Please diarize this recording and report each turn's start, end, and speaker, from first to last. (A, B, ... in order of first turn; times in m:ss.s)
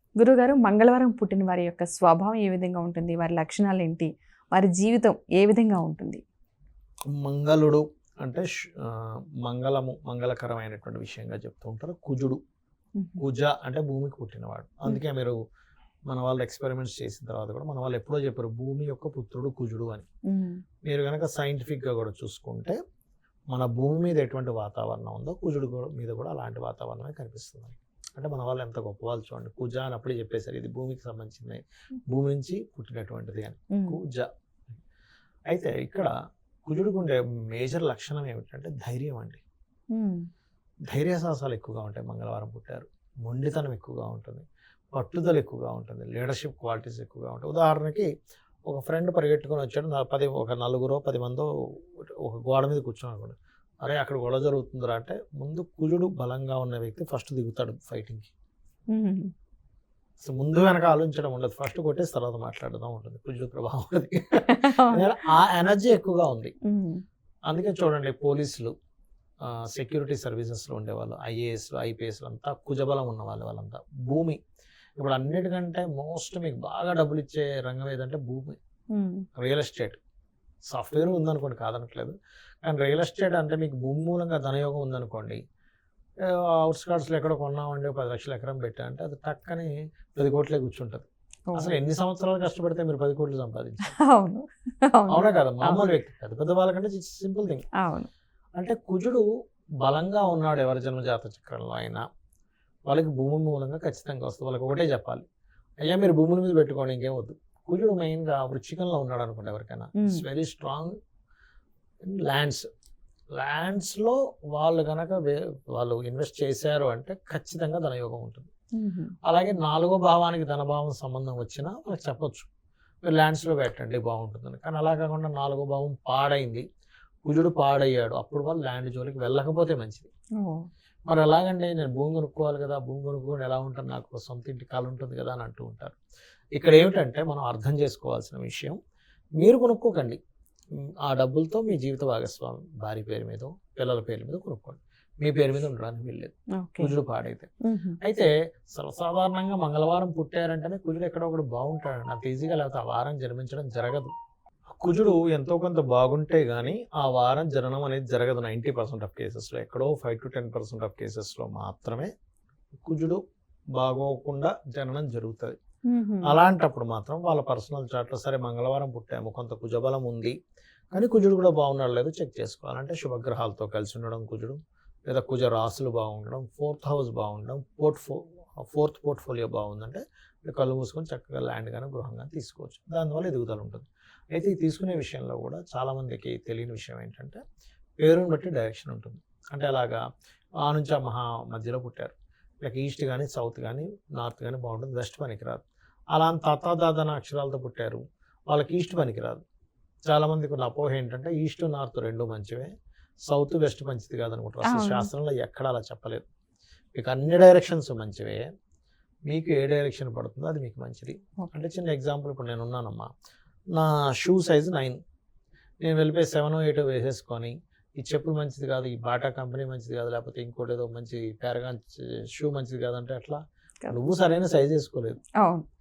0:00.2-0:06.2 A
0:07.1-0:12.4 B
0:13.2-0:15.4 B
0:16.1-0:20.1 B
0:20.3-0:20.6 A
0:20.9-0:22.8 B
0:23.5-0:34.3 B
0:35.5-0:36.1 B
0:36.7-0:39.4 B
0:39.9-0:40.3 A
0:40.9-0:48.1 B
0:48.7-0:51.5 B
0:52.2-0:58.3 B
0:58.9-0:59.3 A
1:00.2-1:06.5 B
1:04.5-1:05.1 A
1:06.7-1:07.0 A
1:07.5-1:08.7 B
1:09.5-1:14.4 B
1:15.0-1:18.6 B
1:18.9-1:19.2 A
1:19.4-1:20.0 B
1:20.7-1:25.4 B
1:26.2-1:34.0 B
1:31.5-1:31.8 A
1:34.0-1:35.8 A
1:35.1-1:37.6 B
1:37.8-1:38.1 A
1:38.6-1:39.3 B
1:39.8-1:42.0 B
1:42.9-1:45.2 B
1:45.8-1:50.9 B
1:50.0-1:50.2 A
1:52.1-1:52.6 B
1:53.4-1:58.5 B
1:58.8-1:59.1 A
1:59.2-2:02.5 B
2:03.0-2:06.6 B
2:07.2-2:10.1 B
2:10.4-2:10.7 A
2:11.1-2:16.0 B
2:16.6-2:18.8 B
2:19.4-2:20.2 B
2:21.0-2:27.5 B
2:26.6-2:26.9 A
2:27.6-2:28.0 A
2:28.0-2:34.1 B
2:34.8-2:42.1 B
2:42.9-2:43.2 B
2:43.8-2:45.6 B
2:45.9-2:46.4 A
2:46.2-2:50.3 B
2:50.9-3:07.4 B
3:08.0-3:10.0 B
3:10.6-3:15.6 B
3:16.1-3:19.4 B
3:20.1-3:22.7 B
3:23.3-3:26.2 B
3:24.7-3:25.1 A
3:27.0-3:28.4 B
3:29.3-3:33.1 B
3:33.7-3:35.0 B
3:35.8-3:45.2 B
3:45.4-3:45.6 A